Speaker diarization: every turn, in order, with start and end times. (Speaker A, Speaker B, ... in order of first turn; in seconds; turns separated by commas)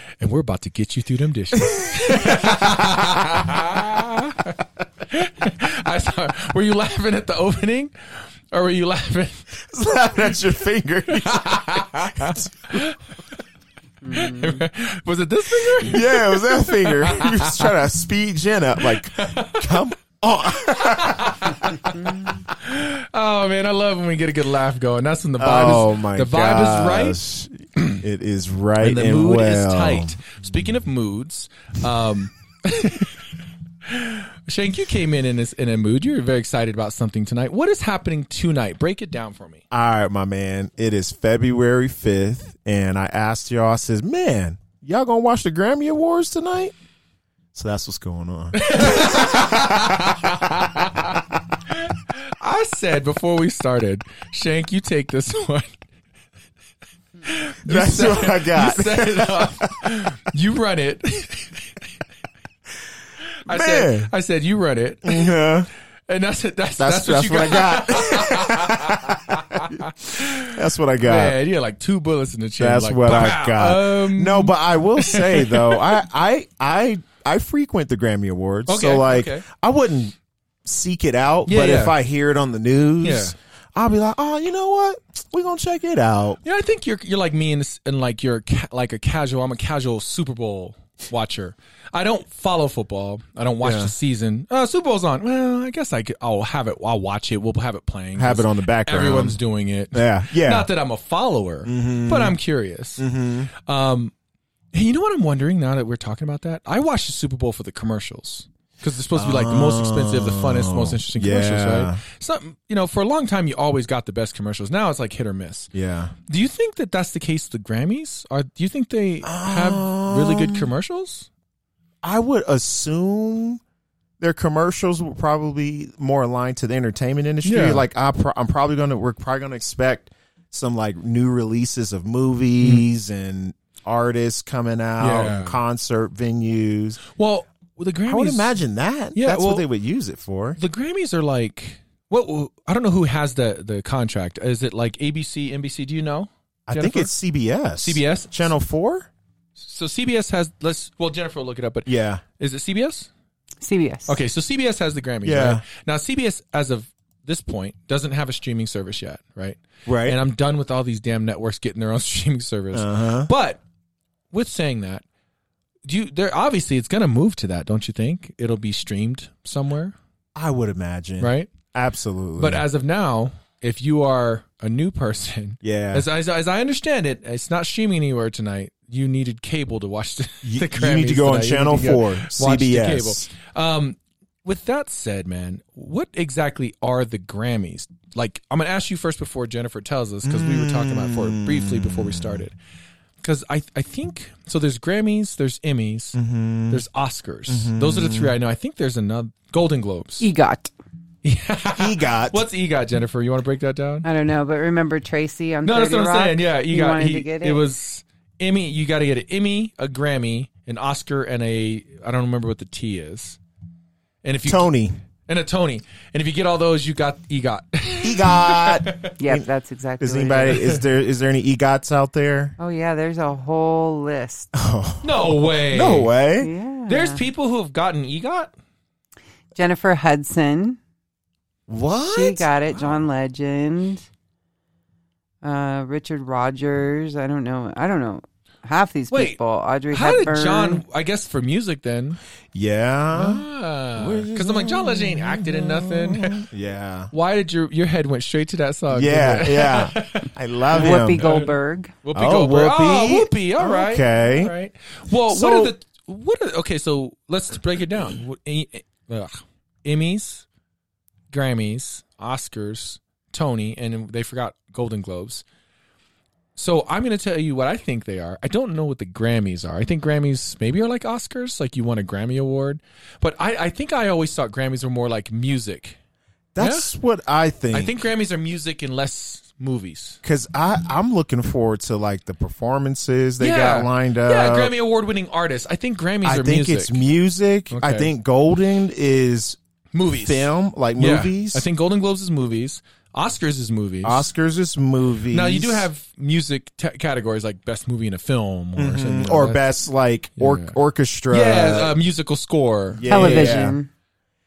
Speaker A: 0.2-9.6, Speaker B: 1.6-3.2, Speaker B: 9.7-12.9, Speaker A: 11.1-13.1, Speaker C: 14.0-14.6, Speaker A: 14.1-17.7, Speaker B: 15.6-21.5, Speaker A: 18.8-19.8, Speaker A: 20.6-27.2, Speaker C: 22.0-22.4, Speaker B: 25.4-30.2, Speaker A: 28.8-33.3, Speaker A: 33.9-39.6, Speaker B: 39.7-46.8, Speaker B: 47.5-51.2, Speaker A: 48.5-55.8, Speaker A: 57.2-61.8, Speaker B: 57.6-59.9, Speaker A: 63.4-65.4, Speaker B: 63.5-64.1, Speaker B: 65.0-65.7, Speaker A: 66.1-75.9, Speaker B: 66.8-71.4, Speaker B: 72.6-86.4, Speaker A: 78.7-79.5, Speaker A: 81.5-82.0, Speaker A: 83.0-83.3, Speaker A: 86.4-104.1, Speaker B: 93.6-93.9, Speaker B: 98.2-99.4, Speaker B: 99.9-100.7, Speaker B: 101.7-102.4, Speaker B: 103.0-103.5, Speaker A: 104.7-115.7, Speaker B: 109.2-112.0, Speaker B: 115.7-116.1, Speaker A: 116.3-121.3, Speaker B: 119.2-120.7, Speaker B: 122.0-123.6, Speaker B: 124.2-137.0, Speaker A: 127.4-127.9, Speaker A: 135.0-135.6, Speaker A: 137.1-138.6, Speaker B: 138.1-140.6, Speaker A: 139.1-139.7, Speaker A: 140.6-147.1, Speaker B: 146.7-149.1, Speaker A: 147.8-148.5, Speaker A: 149.6-153.1, Speaker B: 151.9-152.2, Speaker C: 153.6-154.2, Speaker A: 154.1-163.6, Speaker B: 155.2-155.6, Speaker B: 159.9-160.2, Speaker B: 162.7-163.3, Speaker A: 164.3-165.1, Speaker A: 165.8-169.9, Speaker B: 170.4-172.6, Speaker A: 171.2-171.5, Speaker A: 172.4-192.6, Speaker B: 175.6-176.1, Speaker B: 180.4-183.3, Speaker B: 190.2-192.4, Speaker A: 193.2-196.2, Speaker B: 196.2-196.8, Speaker A: 196.7-200.3, Speaker B: 197.5-198.3, Speaker C: 200.2-200.7, Speaker A: 201.2-204.1, Speaker B: 201.8-202.4, Speaker C: 204.0-207.6, Speaker A: 205.7-213.4, Speaker A: 214.2-214.7, Speaker B: 214.5-215.0, Speaker A: 215.3-219.1, Speaker B: 218.0-219.4, Speaker C: 219.2-220.6, Speaker B: 220.0-222.6, Speaker C: 222.6-224.5, Speaker B: 224.5-226.5, Speaker A: 225.0-226.1, Speaker C: 226.4-227.2, Speaker A: 226.9-228.5, Speaker C: 229.6-230.8, Speaker B: 231.7-232.5, Speaker C: 232.1-234.1, Speaker C: 235.4-240.8, Speaker A: 239.1-239.4, Speaker A: 239.9-242.2, Speaker B: 242.5-243.4, Speaker A: 243.1-246.4, Speaker B: 244.0-247.1, Speaker A: 247.1-260.5, Speaker B: 248.9-251.2, Speaker C: 250.7-251.9, Speaker B: 252.2-254.5, Speaker B: 255.3-255.7, Speaker A: 261.3-265.4, Speaker A: 266.6-276.0, Speaker B: 276.6-277.9, Speaker A: 276.6-276.9, Speaker A: 277.7-280.2, Speaker B: 280.2-284.7, Speaker A: 283.4-287.0, Speaker B: 286.2-289.6, Speaker A: 287.7-288.1, Speaker A: 289.9-294.3, Speaker B: 290.1-291.6, Speaker B: 294.0-295.9, Speaker A: 295.3-299.7, Speaker B: 298.8-302.0, Speaker A: 300.4-300.8, Speaker A: 301.3-303.7, Speaker B: 303.0-303.8, Speaker C: 303.1-303.9